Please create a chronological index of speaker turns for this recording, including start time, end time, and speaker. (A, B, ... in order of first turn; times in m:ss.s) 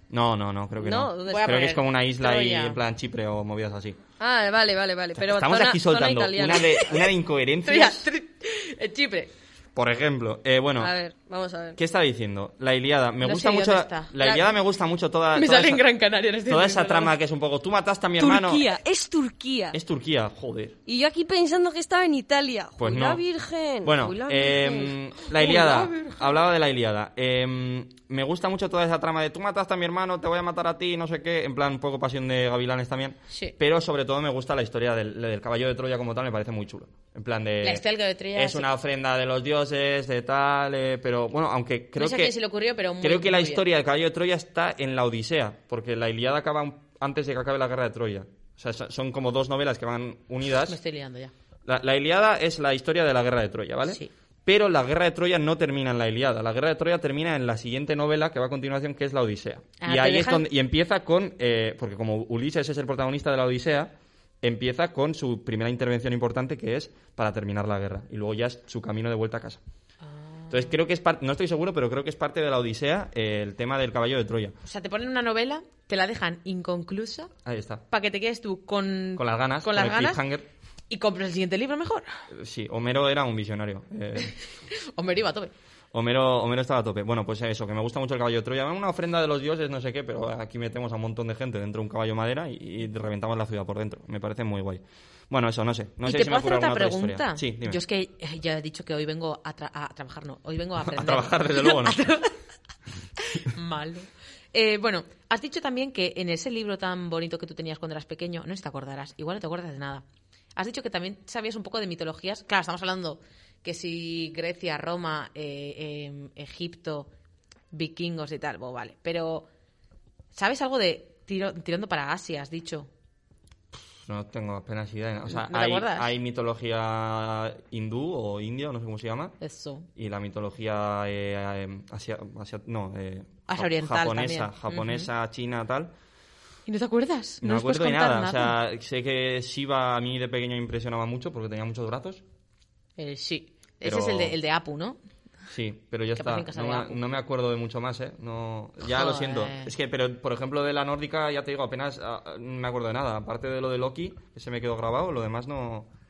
0:00.1-0:04.0 A
0:00.8-0:01.7 B
0:01.3-0:02.8 C
0:04.2-0:06.7 B
0:05.2-0:08.1 A
0:06.8-0:07.0 C
0:07.6-0:09.3 C
0:09.7-0:10.9 A
0:10.8-0:11.8 B
0:11.8-0:15.8 A
0:13.2-0:14.1 C
0:15.3-0:17.1 C
0:16.5-0:18.6 A
0:18.2-0:19.8 B
0:19.7-0:20.8 A
0:20.8-0:24.9 B
0:22.8-0:23.2 A
0:23.8-0:37.8 A
0:25.3-0:26.4 C
0:33.3-0:33.6 C
0:37.6-0:38.7 C
0:38.3-0:42.3 A
0:42.0-0:43.6 C
0:43.0-0:50.8 A
0:50.7-0:51.3 C
0:51.6-1:09.6 A
0:59.8-1:00.4 C
1:10.0-1:10.8 C
1:10.5-1:14.6 A
1:14.6-1:17.3 C
1:17.4-1:17.8 A
1:17.9-1:20.2 C
1:19.2-1:20.5 A
1:20.9-1:22.1 C
1:22.3-1:24.3 A
1:24.2-1:25.5 C
1:25.9-1:37.8 A
1:36.0-1:42.4 C
1:40.8-1:42.0 A
1:43.2-1:50.0 C
1:50.6-1:57.1 C
1:57.7-1:59.5 C
2:00.3-2:02.9 C
2:03.7-2:09.3 A
2:05.3-2:06.1 C
2:09.4-2:09.9 C
2:10.0-2:15.9 A
2:13.5-2:15.1 C
2:16.7-2:18.5 C
2:17.4-2:22.2 A
2:23.0-2:25.0 C
2:23.8-2:24.4 A
2:25.5-2:35.9 A
2:26.2-2:27.0 C
2:28.9-2:29.7 C